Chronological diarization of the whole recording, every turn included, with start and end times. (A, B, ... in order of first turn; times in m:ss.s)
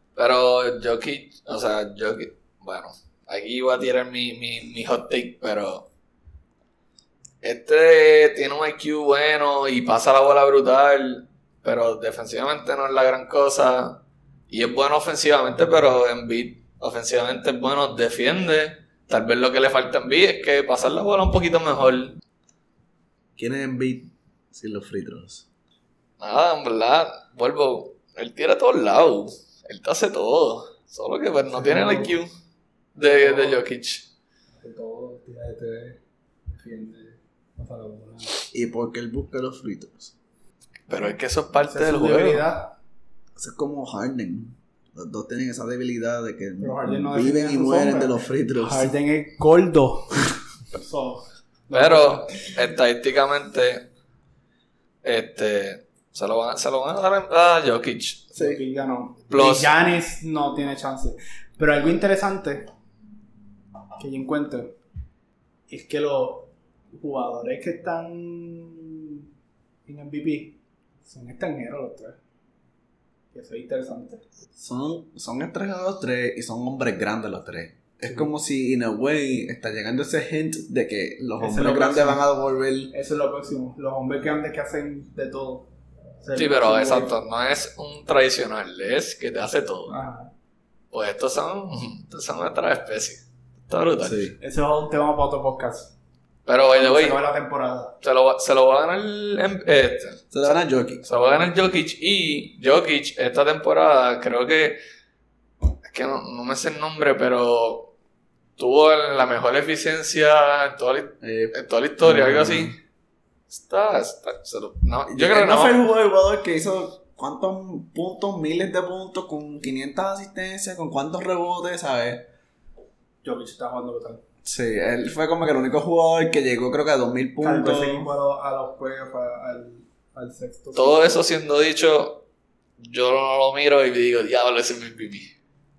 0:00.2-0:05.9 A
0:07.4-0:22.2 A
0:23.4-0:25.4 B
0:26.2-0:32.3 A
0:31.5-0:32.1 C
0:33.0-0:33.6 C
0:33.0-0:34.0 A
0:34.6-0:38.4 C
0:38.5-0:40.1 B
0:40.9-0:42.5 A
0:41.6-0:42.7 C
0:43.4-0:48.9 B
0:46.6-0:52.5 C
0:51.7-0:53.8 A
0:55.0-0:58.2 A
0:58.3-1:02.7 C
0:58.4-0:58.6 B
0:59.3-0:59.7 A
1:04.0-1:04.8 C
1:05.7-1:09.1 C
1:09.9-1:12.2 C
1:13.3-1:14.2 C
1:14.6-1:22.9 B
1:21.4-1:22.2 C
1:22.9-1:25.7 C
1:26.2-1:27.1 C
1:26.3-1:29.9 A
1:29.9-1:30.3 C
1:30.9-1:34.3 A
1:34.0-1:34.4 B
1:34.4-1:35.9 C
1:36.4-1:37.2 A
1:36.7-1:37.9 C
1:38.0-1:40.2 A
1:40.3-1:41.0 B
1:41.0-1:44.8 A
1:45.8-1:47.9 A
1:48.6-1:52.7 A
1:51.2-1:52.8 B
1:53.5-1:55.8 A
1:55.1-2:02.3 B
2:03.2-2:04.2 C
2:04.4-2:08.1 B
2:07.4-2:11.2 C
2:10.7-2:12.2 A
2:12.8-2:15.3 A